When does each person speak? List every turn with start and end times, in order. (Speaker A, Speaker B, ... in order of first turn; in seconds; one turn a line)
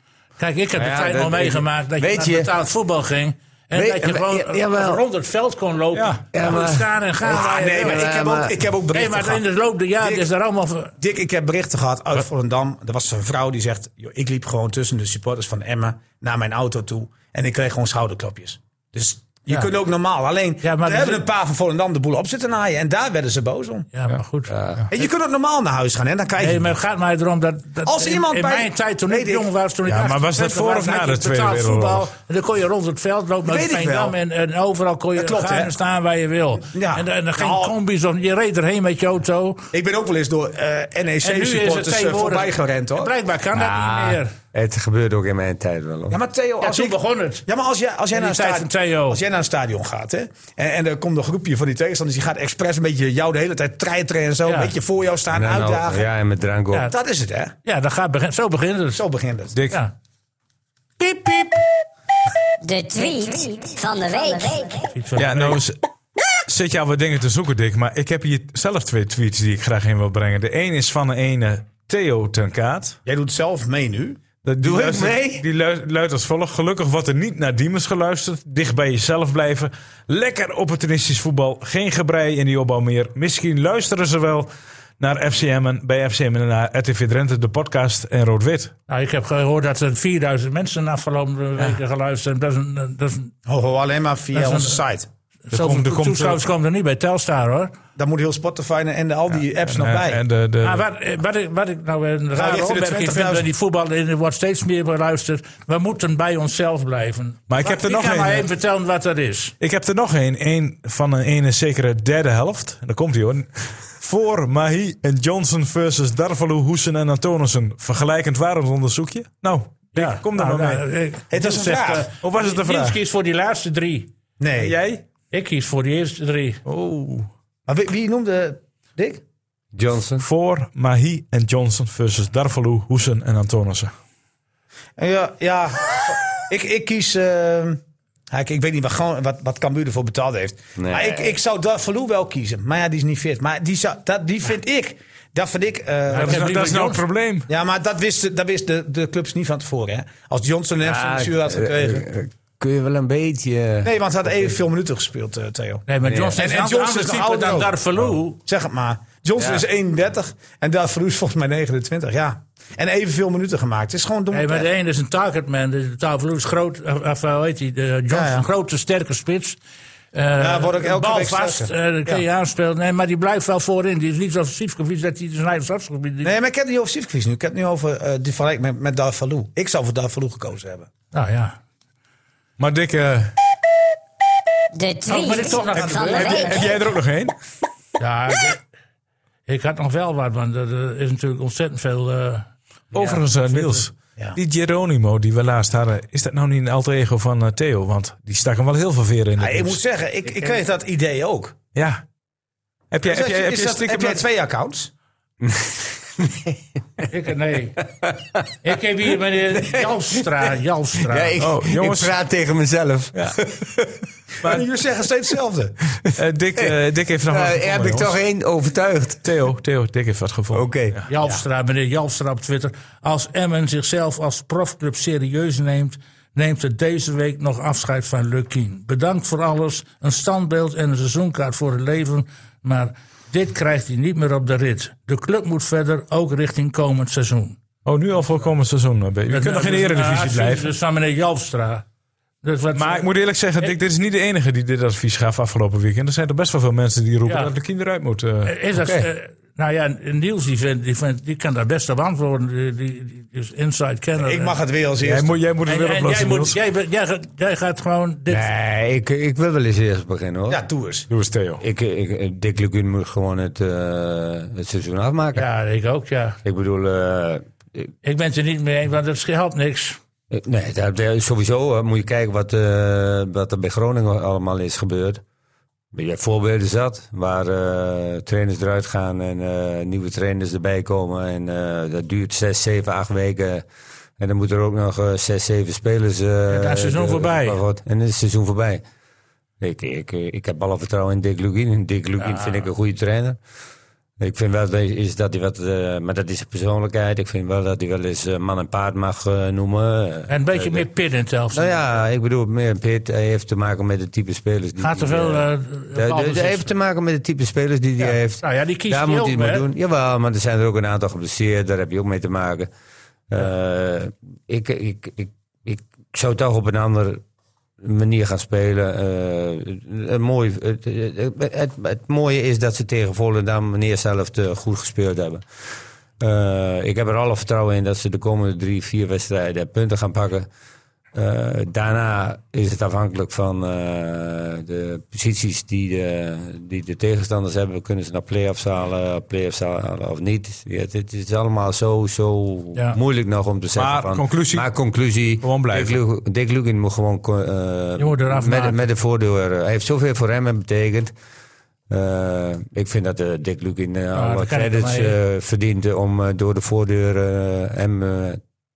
Speaker A: 0.4-8.1
Speaker B: 0.8-2.5
Speaker B: 3.7-5.0
Speaker C: 5.9-6.2
Speaker B: 6.3-8.6
Speaker D: 7.2-9.4
Speaker A: 8.9-10.9
Speaker D: 10.0-10.3
Speaker D: 11.0-23.9
Speaker A: 20.6-21.2
Speaker A: 23.9-24.5
Speaker B: 24.5-24.9
Speaker D: 24.9-26.7
Speaker A: 26.4-39.6
Speaker D: 27.9-29.5
Speaker C: 29.9-32.1
Speaker D: 33.5-34.2
Speaker D: 35.2-35.7
Speaker D: 36.7-37.7
Speaker D: 39.7-43.1
Speaker A: 41.2-44.3
Speaker B: 43.5-46.2
Speaker D: 46.1-56.1
Speaker A: 46.6-47.4
Speaker A: 48.1-49.2
Speaker A: 54.5-54.7
Speaker B: 55.3-56.9
Speaker D: 56.9-57.5
Speaker A: 57.6-59.0
Speaker D: 58.9-59.6
Speaker C: 59.5-59.8
Speaker A: 61.0-61.6
Speaker E: 62.6-64.9
Speaker A: 65.0-65.6
Speaker C: 65.2-65.8
Speaker C: 66.5-73.0
Speaker D: 73.1-74.2
Speaker C: 74.4-88.7
Speaker B: 74.6-75.5
Speaker A: 88.9-93.3
Speaker D: 93.5-95.1
Speaker A: 94.3-94.8
Speaker A: 95.5-97.7
Speaker C: 95.5-96.4
Speaker D: 98.0-100.2
Speaker C: 99.6-100.9
Speaker A: 100.6-109.5
Speaker D: 102.3-103.5
Speaker C: 107.5-108.5
Speaker C: 109.6-120.8
Speaker A: 120.0-124.1
Speaker D: 121.3-122.1
Speaker C: 122.2-123.0
Speaker D: 124.4-124.8
Speaker C: 124.6-125.0
Speaker A: 125.3-126.6
Speaker C: 126.7-127.3
Speaker D: 127.7-129.2
Speaker B: 129.7-130.2
Speaker C: 130.2-133.9
Speaker D: 135.0-137.8
Speaker D: 138.3-146.7
Speaker B: 140.8-141.4
Speaker A: 146.1-147.0
Speaker C: 146.1-147.5
Speaker D: 147.5-152.1
Speaker B: 150.8-154.5
Speaker D: 153.8-155.8
Speaker A: 155.9-158.4
Speaker B: 156.0-156.4
Speaker D: 156.4-157.7
Speaker D: 158.4-164.7
Speaker B: 159.4-159.7
Speaker A: 164.3-169.6
Speaker D: 168.1-168.5
Speaker A: 170.1-176.3
Speaker D: 170.4-172.2
Speaker D: 176.2-180.9
Speaker A: 181.1-181.6
Speaker C: 182.6-183.3
Speaker E: 184.7-186.8
Speaker A: 185.1-186.7
Speaker C: 186.0-187.3
Speaker A: 188.0-188.6
Speaker A: 189.5-193.8
Speaker C: 192.9-199.8
Speaker D: 199.4-201.6
Speaker C: 201.8-202.0
Speaker C: 202.9-204.2
Speaker D: 203.1-204.9
Speaker B: 205.4-207.1
Speaker A: 207.1-207.8
Speaker B: 208.0-208.5
Speaker A: 208.6-211.4
Speaker B: 209.5-214.0
Speaker C: 211.4-212.2
Speaker D: 214.4-215.7
Speaker C: 216.1-218.2
Speaker B: 217.3-219.2
Speaker C: 219.2-221.1
Speaker B: 220.5-221.0
Speaker A: 221.1-237.6
Speaker C: 237.8-240.7
Speaker A: 239.3-241.8
Speaker A: 242.4-243.1
Speaker C: 242.7-248.6
Speaker A: 247.3-247.5
Speaker A: 248.4-254.6
Speaker B: 248.7-249.1
Speaker D: 254.2-255.4
Speaker C: 255.0-256.6
Speaker A: 255.7-258.5
Speaker B: 258.3-260.6
Speaker D: 260.5-261.1
Speaker C: 261.1-261.6
Speaker B: 261.6-265.5
Speaker A: 265.4-266.4
Speaker B: 266.4-267.9
Speaker A: 268.0-270.0
Speaker B: 270.3-275.2
Speaker B: 275.9-283.6
Speaker B: 284.2-288.8
Speaker A: 286.5-287.6
Speaker B: 289.6-293.4
Speaker A: 292.2-292.7
Speaker B: 294.2-300.9
Speaker A: 300.3-301.8
Speaker B: 301.5-312.7
Speaker A: 304.8-306.7
Speaker A: 308.0-309.7
Speaker B: 313.3-317.2
Speaker B: 317.8-325.4
Speaker B: 326.2-330.5
Speaker B: 331.1-351.1
Speaker C: 343.8-344.7
Speaker C: 345.4-346.0
Speaker A: 348.0-348.8
Speaker B: 351.9-358.4
Speaker A: 354.1-355.1